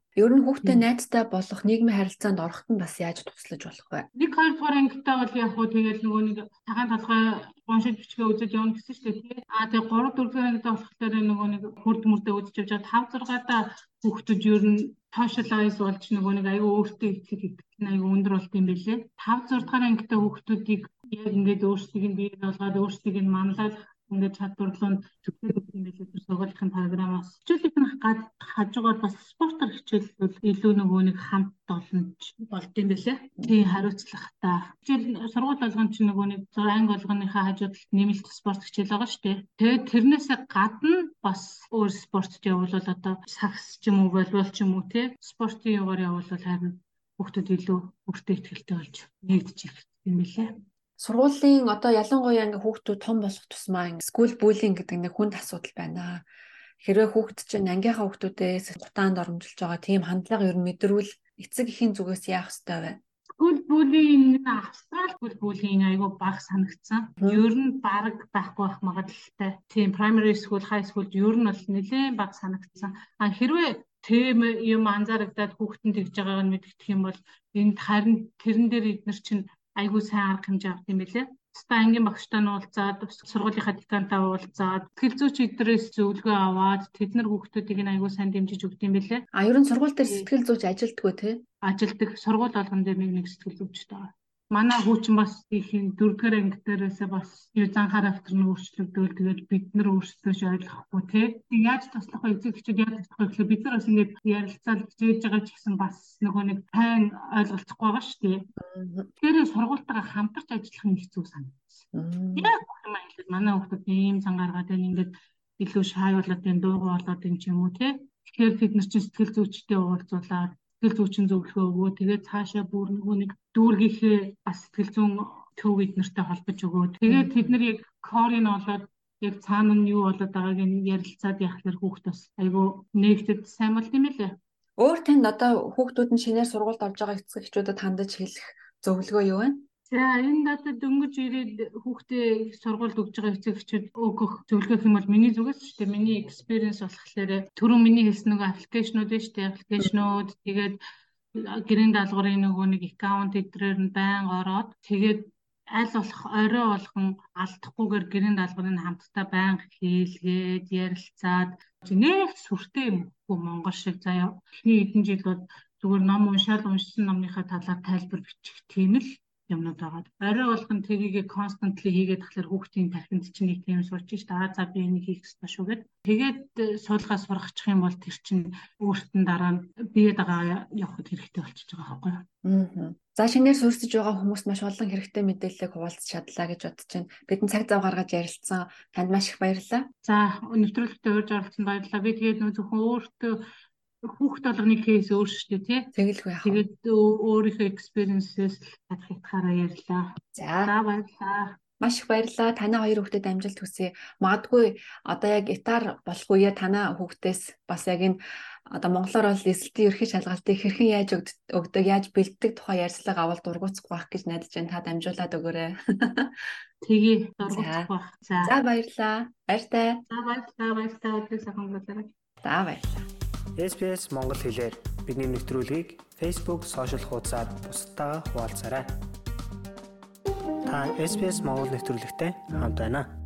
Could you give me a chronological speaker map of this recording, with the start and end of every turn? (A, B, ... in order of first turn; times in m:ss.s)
0:00.2-0:04.1 A
0:04.2-0:50.5 B
0:51.0-0:56.2 A
0:56.8-1:03.0 A
1:03.4-1:29.2 B
1:29.3-1:31.4 A
1:31.6-1:48.5 B
1:48.6-1:49.1 A
1:49.2-1:51.8 B
1:51.9-1:52.5 A
1:52.4-2:14.4 B
2:07.1-2:07.6 A
2:14.8-2:19.6 A
2:19.9-2:30.8 B
2:31.4-3:02.2 B
3:02.4-3:09.9 A
3:10.0-3:13.4 B
3:14.0-3:15.9 B
3:15.9-3:16.6 A
3:16.4-3:21.6 B
3:20.3-3:20.7 A
3:21.8-3:36.4 A
3:36.8-3:38.5 B
3:37.4-3:40.0 A
3:40.1-3:42.1 B
3:42.4-3:43.0 A
3:43.6-3:48.9 C
3:50.6-3:53.1 C